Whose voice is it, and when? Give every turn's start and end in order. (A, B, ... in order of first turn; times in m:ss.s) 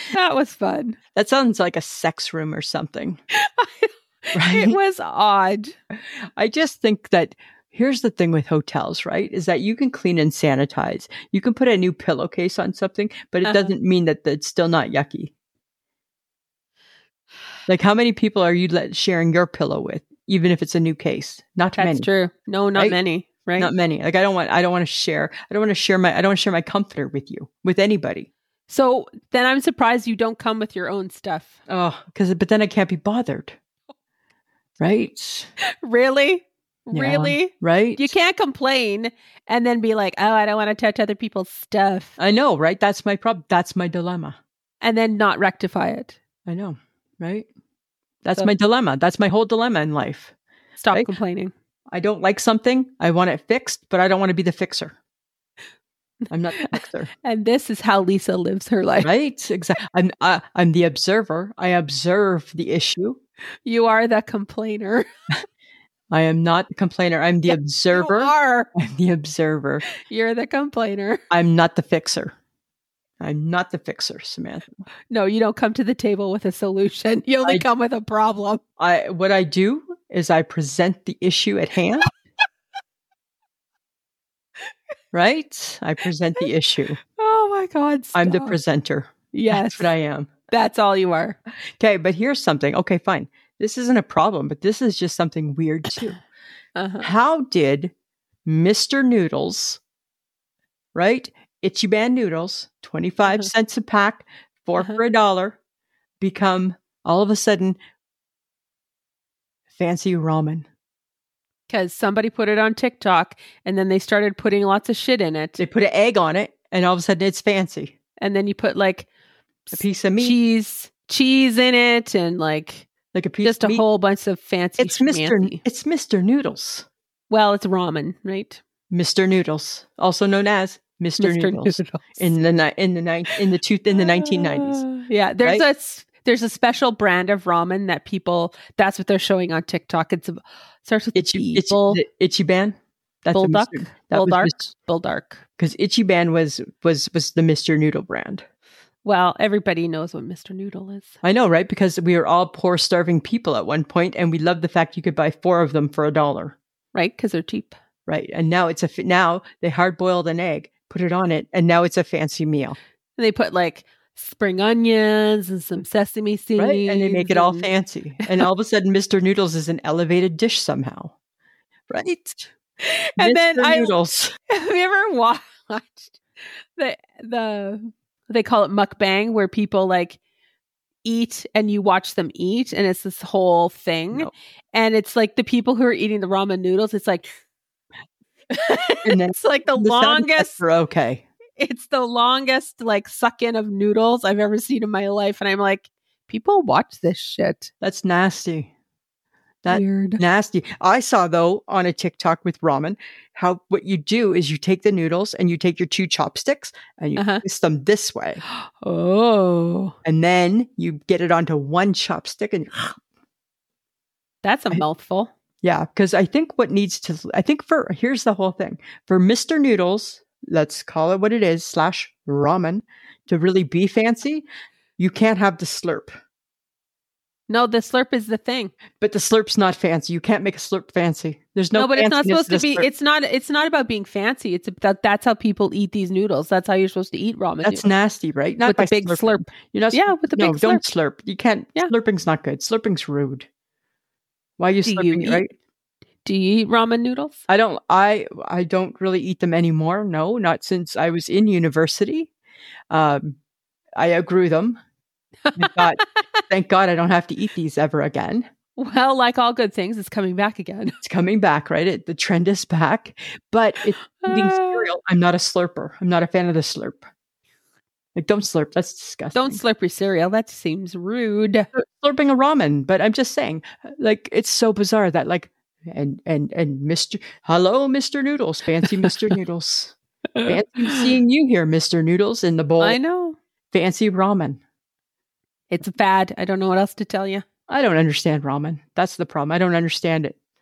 0:00.1-0:01.0 A
0:01.2-0:03.2 B
0:03.3-0:05.8 A
0:04.3-0:04.8 B
0:06.4-0:15.3 B
0:13.4-0:13.7 A
0:17.7-0:22.1 B
0:21.8-0:23.7 A
0:23.6-0:28.3 B
0:28.7-0:31.6 A
0:31.7-0:33.6 B
0:34.8-0:35.5 B
0:35.6-0:42.2 A
0:36.9-0:38.1 B
0:42.2-0:44.4 B
0:44.8-0:46.2 A
0:46.5-0:47.5 B
0:48.2-0:50.3 B
0:50.8-0:51.5 A
0:51.9-0:55.0 B
0:56.3-0:57.1 B
0:56.7-0:59.1 A
0:59.0-1:03.2 B
1:03.6-1:05.1 A
1:06.1-1:09.9 B
1:07.5-1:08.7 A
1:10.0-1:11.2 A
1:11.3-1:12.4 B
1:13.2-1:14.8 B
1:15.1-1:18.6 A
1:18.8-1:22.1 B
1:25.1-1:27.0 B
1:27.1-1:28.6 A
1:28.2-1:30.3 B
1:29.3-1:29.9 A
1:30.5-1:31.4 A
1:31.8-1:36.2 B
1:36.8-1:37.1 A
1:37.0-1:37.9 B
1:38.5-1:39.8 B
1:41.0-1:45.6 B
1:46.2-1:47.8 B
1:49.7-1:50.7 B
1:51.7-1:55.6 A
1:55.6-1:57.9 B
1:58.2-1:59.1 A
1:59.7-2:02.9 A
1:59.7-2:00.4 B
2:03.1-2:03.8 B
2:03.4-2:05.6 A
2:04.8-2:06.9 B
2:07.3-2:08.6 A
2:08.9-2:14.9 B
2:11.2-2:12.2 A
2:14.0-2:22.0 A
2:21.2-2:24.6 B
2:23.3-2:25.4 A
2:25.6-2:28.4 B
2:29.0-2:31.2 A
2:31.2-2:36.6 B
2:36.9-2:37.8 A
2:38.1-2:42.8 B
2:43.2-2:47.7 A
2:46.6-2:51.1 B
2:51.9-2:52.5 B
2:52.8-2:54.0 A
2:53.2-2:54.4 B
2:54.5-2:56.2 A
2:56.8-3:00.2 A
3:01.0-3:07.3 A
3:08.5-3:10.6 A
3:09.0-3:11.3 B
3:11.6-3:17.7 A
3:17.8-3:18.7 B
3:19.6-3:28.4 B
3:19.7-3:20.2 A
3:27.2-3:27.4 A
3:28.5-3:30.0 A
3:30.0-3:33.0 B
3:34.4-3:35.3 A
3:35.6-3:44.4 B
3:45.0-3:46.2 B
3:47.5-3:48.7 A
3:49.0-3:52.9 B
3:51.7-3:57.9 A
3:57.6-4:03.5 B
3:58.7-4:00.8 A
4:04.6-4:05.5 B
4:04.8-4:05.4 A
4:06.2-4:07.4 A
4:07.5-4:12.3 B
4:12.9-4:13.4 B
4:14.0-4:14.8 B
4:15.4-4:16.0 A
4:15.6-4:18.5 B
4:18.8-4:21.0 A
4:21.0-4:27.1 B
4:24.2-4:24.9 A
4:28.2-4:29.6 B
4:29.4-4:31.7 A
4:31.7-4:43.0 B
4:40.4-4:41.1 A
4:42.8-4:43.4 A
4:43.7-4:44.6 B
4:45.7-4:47.4 A
4:47.7-4:50.4 B